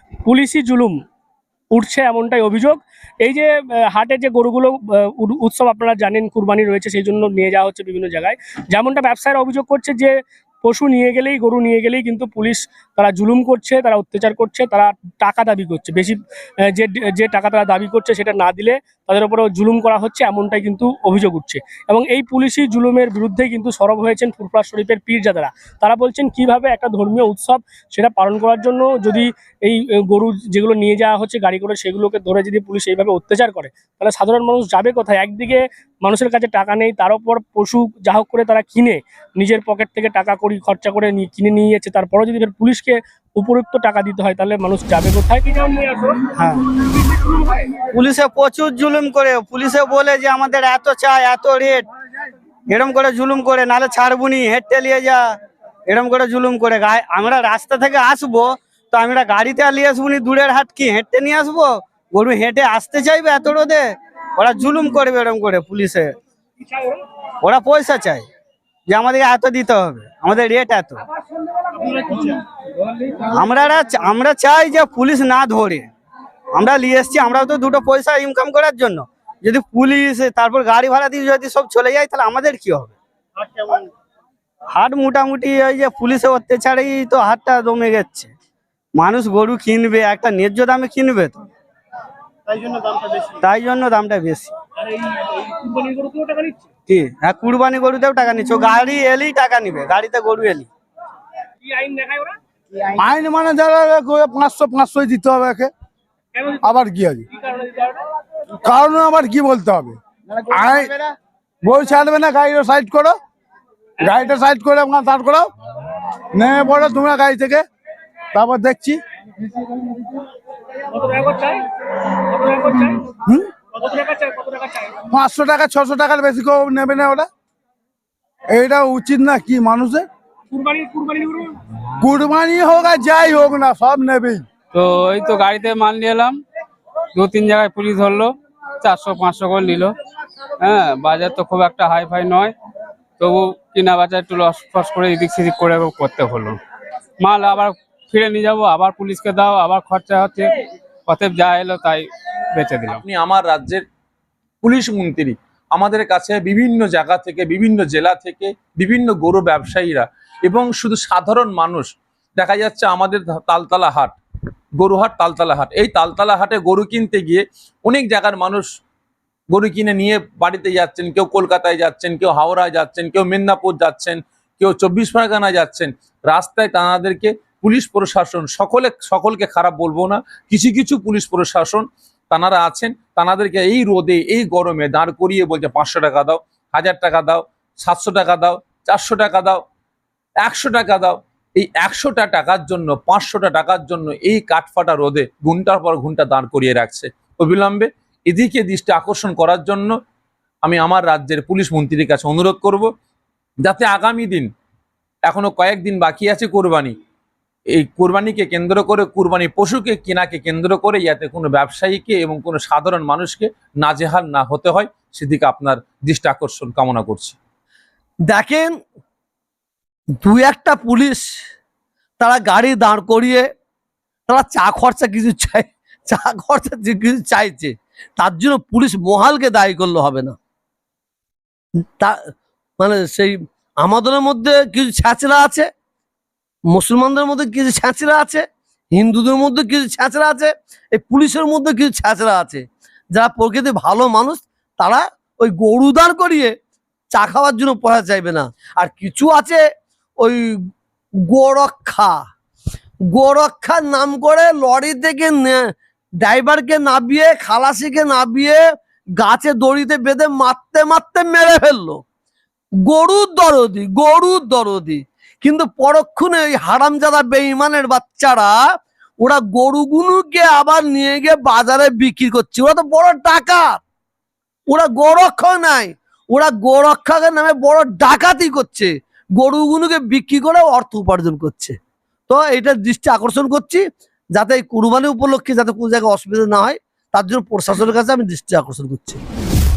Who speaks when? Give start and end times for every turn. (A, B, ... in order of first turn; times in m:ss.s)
0:00.3-0:01.0 A
0:01.7-0:46.2 A
0:46.4-0:46.6 B
0:47.9-0:51.9 B
0:52.7-0:55.3 B
0:55.9-1:06.2 B
1:07.4-1:08.2 B
1:08.9-1:11.0 B
1:11.9-1:12.3 B
1:13.3-1:15.9 B
1:16.6-1:23.9 B
1:24.7-1:28.3 B
1:29.0-1:31.4 B
1:32.7-1:33.2 A
1:33.4-1:34.5 B
1:34.8-1:36.7 A
1:36.9-1:40.7 B
1:41.6-1:42.4 A
1:43.0-1:45.7 C
1:46.6-1:47.2 C
1:47.3-1:48.0 A
1:48.6-1:51.0 C
1:51.6-1:53.2 C
1:54.0-1:55.5 C
1:56.3-1:57.6 C
1:58.3-1:59.0 C
2:00.9-2:03.1 A
2:03.7-2:05.0 A
2:05.1-2:07.3 C
2:08.5-2:10.0 C
2:10.5-2:11.6 A
2:12.0-2:14.4 C
2:14.7-2:16.4 D
2:17.1-2:19.9 D
2:20.6-2:22.5 D
2:23.2-2:26.6 D
2:27.2-2:30.6 D
2:31.1-2:33.0 D
2:32.9-2:33.8 E
2:34.6-2:44.2 E
2:44.8-2:48.7 E
2:49.5-3:09.6 E
3:10.4-3:19.9 E
3:20.6-3:22.9 E
3:23.6-3:24.5 E
3:25.3-3:26.9 E
3:27.7-3:37.4 E
3:38.3-3:38.7 F
3:40.2-3:41.2 F
3:42.2-3:43.4 F
3:44.3-3:50.3 F
3:52.0-3:55.7 F
3:56.7-3:58.4 F
3:58.9-4:06.5 F
4:07.1-4:09.6 F
4:10.2-4:10.6 F
4:11.3-4:12.2 F
4:13.1-4:15.7 F
4:16.2-4:18.6 F
4:19.2-4:22.0 F
4:22.8-4:28.6 F
4:29.2-4:33.8 F
4:34.7-4:41.8 F
4:42.3-4:43.8 F
4:44.4-4:49.2 F